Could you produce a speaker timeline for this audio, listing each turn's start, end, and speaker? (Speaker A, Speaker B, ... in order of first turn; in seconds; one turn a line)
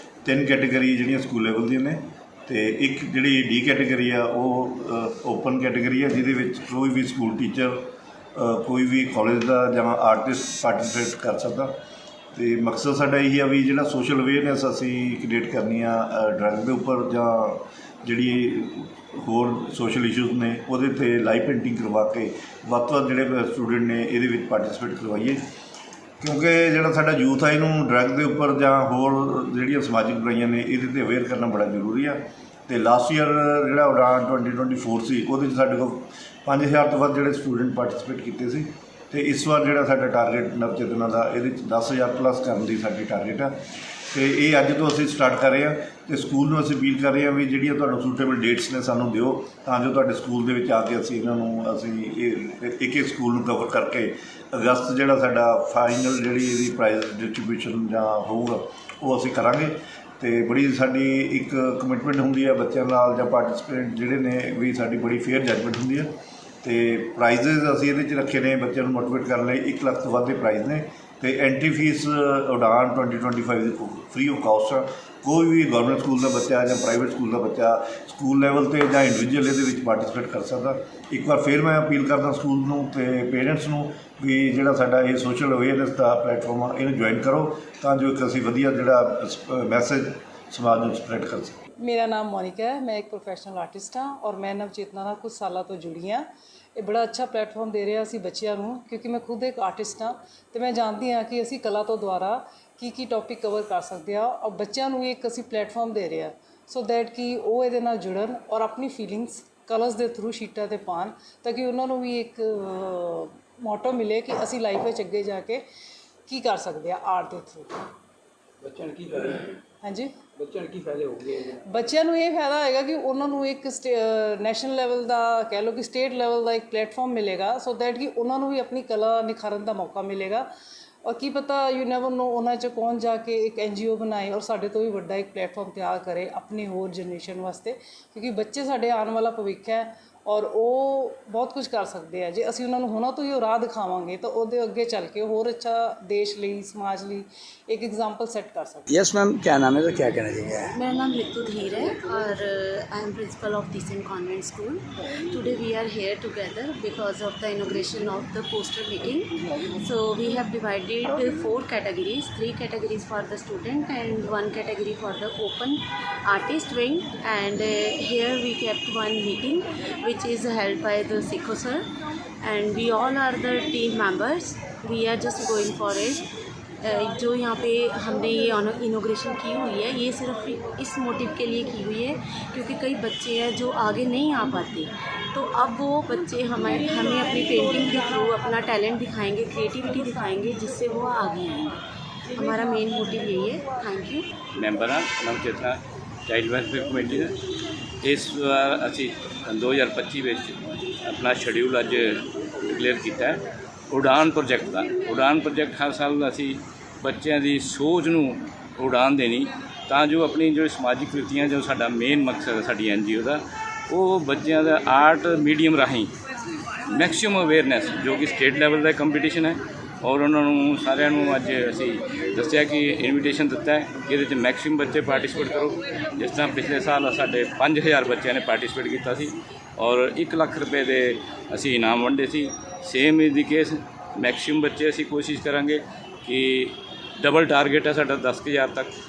Speaker A: 0.2-7.8
Speaker A: 8.3-11.7
Speaker A: 12.3-25.4
Speaker A: 26.2-43.6
Speaker A: 44.1-66.1
Speaker A: 66.6-91.6
Speaker B: 91.8-115.6
Speaker B: 116.3-117.7
Speaker C: 118.6-119.6
Speaker B: 119.8-120.2
Speaker C: 120.4-121.6
Speaker B: 121.7-130.5
Speaker B: 131.0-148.9
Speaker C: 148.9-150.8
Speaker D: 150.7-171.9
Speaker D: 172.4-176.3
Speaker D: 176.8-191.8
Speaker D: 192.3-194.2
Speaker E: 194.6-197.4
Speaker E: 198.0-216.1
Speaker E: 216.9-238.9